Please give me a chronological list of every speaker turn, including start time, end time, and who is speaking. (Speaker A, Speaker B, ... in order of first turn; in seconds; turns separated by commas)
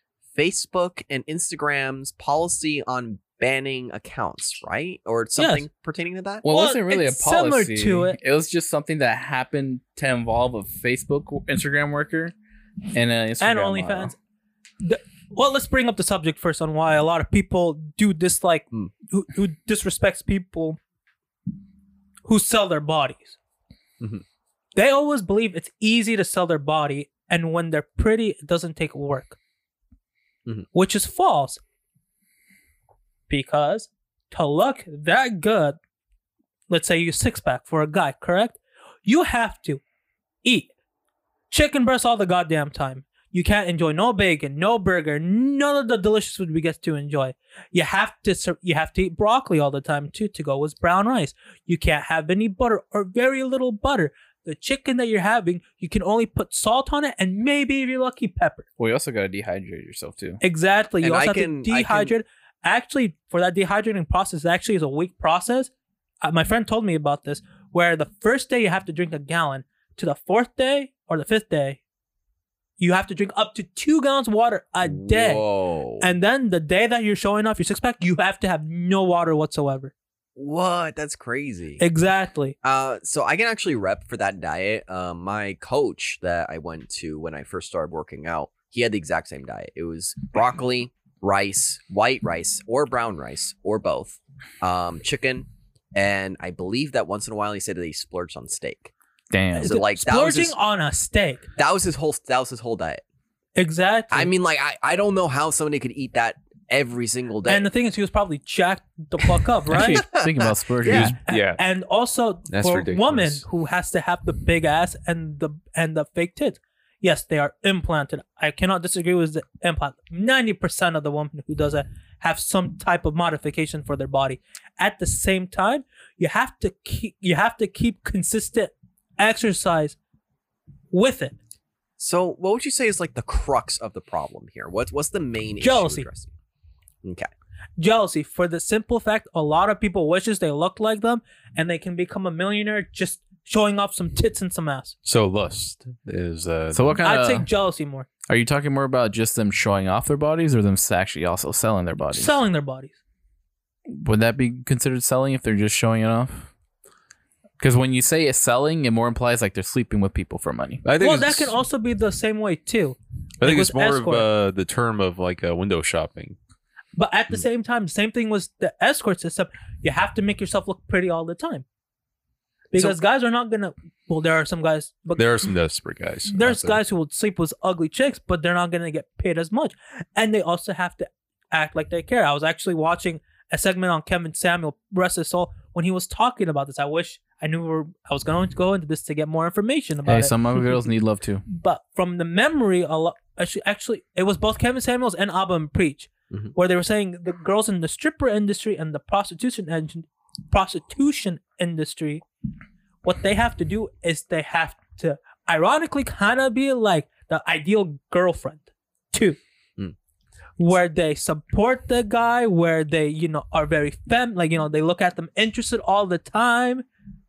Speaker A: 0.3-6.4, Speaker B: 5.4-5.6, Speaker C: 6.4-12.3, Speaker B: 6.5-8.2, Speaker C: 12.9-14.1, Speaker B: 13.4-14.2, Speaker B: 14.8-20.8, Speaker B: 22.2-23.4, Speaker B: 24.7-29.4, Speaker B: 30.7-31.6, Speaker B: 33.3-35.8, Speaker B: 36.7-39.8, Speaker B: 40.4-40.7, Speaker B: 41.5-58.7, Speaker C: 58.8-60.4, Speaker B: 60.4-65.7, Speaker A: 61.0-62.1, Speaker B: 66.2-71.8, Speaker B: 72.8-75.4, Speaker A: 74.8-76.1, Speaker B: 76.0-79.9, Speaker A: 80.3-81.8, Speaker B: 81.8-82.5, Speaker A: 82.6-98.9, Speaker C: 99.3-99.8, Speaker B: 99.5-101.5, Speaker A: 99.5-100.5, Speaker A: 101.6-103.0, Speaker B: 103.5-104.3, Speaker A: 104.1-107.7, Speaker B: 107.5-110.0, Speaker C: 109.7-111.2, Speaker A: 109.7-111.1, Speaker D: 110.8-111.6, Speaker B: 111.2-130.0, Speaker D: 112.5-113.4, Speaker B: 130.9-131.3, Speaker A: 132.0-136.3, Speaker B: 135.6-136.1, Speaker A: 137.0-137.3, Speaker B: 137.8-144.9, Speaker D: 145.0-147.0, Speaker C: 146.7-147.4, Speaker B: 147.0-148.1, Speaker C: 148.3-152.4, Speaker B: 152.1-152.9, Speaker C: 153.9-156.5, Speaker C: 157.6-160.8, Speaker D: 160.8-161.5, Speaker B: 161.0-164.3, Speaker D: 163.4-166.4, Speaker B: 167.0-171.6, Speaker B: 172.7-175.4, Speaker D: 175.2-176.8, Speaker B: 176.3-190.3, Speaker C: 190.1-191.4, Speaker B: 191.5-202.2, Speaker B: 203.0-209.4, Speaker B: 210.6-216.8